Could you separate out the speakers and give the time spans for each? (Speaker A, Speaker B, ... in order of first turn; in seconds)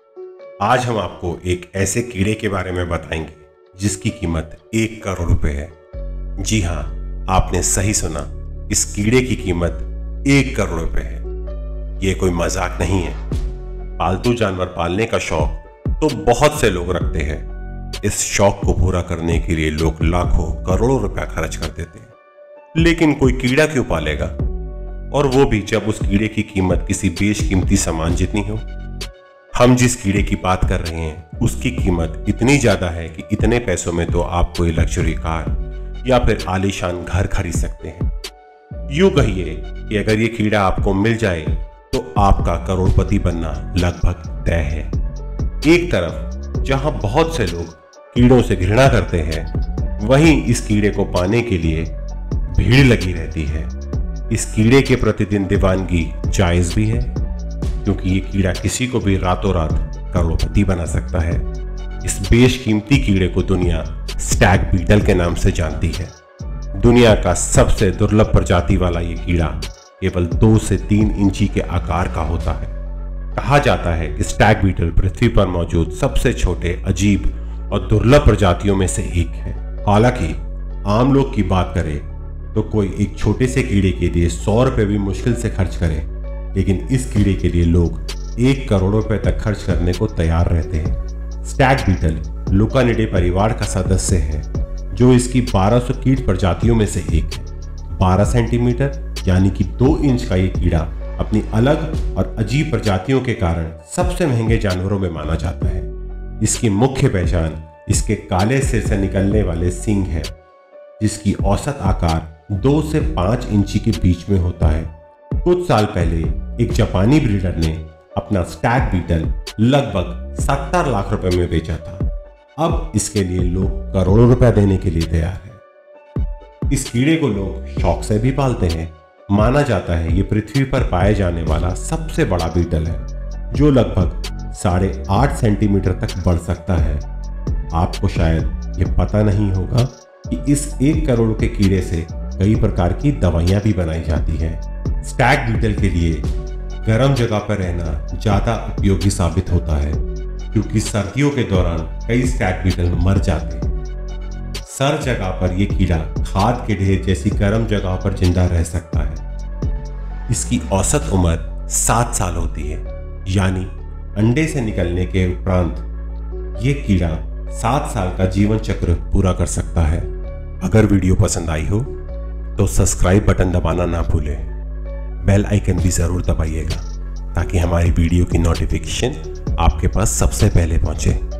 Speaker A: 0.6-5.7, 6.4-11.2, 12.0-13.2, 14.0-17.4, 18.0-22.1, 22.8-24.3, 25.1-28.6, 29.6-38.1, 38.9-44.9, 45.6-49.5, 50.0-51.9, 52.5-53.7, 54.3-57.1, 57.8-61.4, 62.0-66.1, 66.8-72.7, 73.4-105.9, 106.4-110.3, 111.0-114.9, 115.4-122.0, 122.6-125.6, 126.7-137.0, 137.7-146.3, 146.8-150.0, 150.5-153.7, 154.7-159.2, 160.3-165.8, 166.6-170.1, 170.6-171.9, 172.6-174.5, 175.2-181.2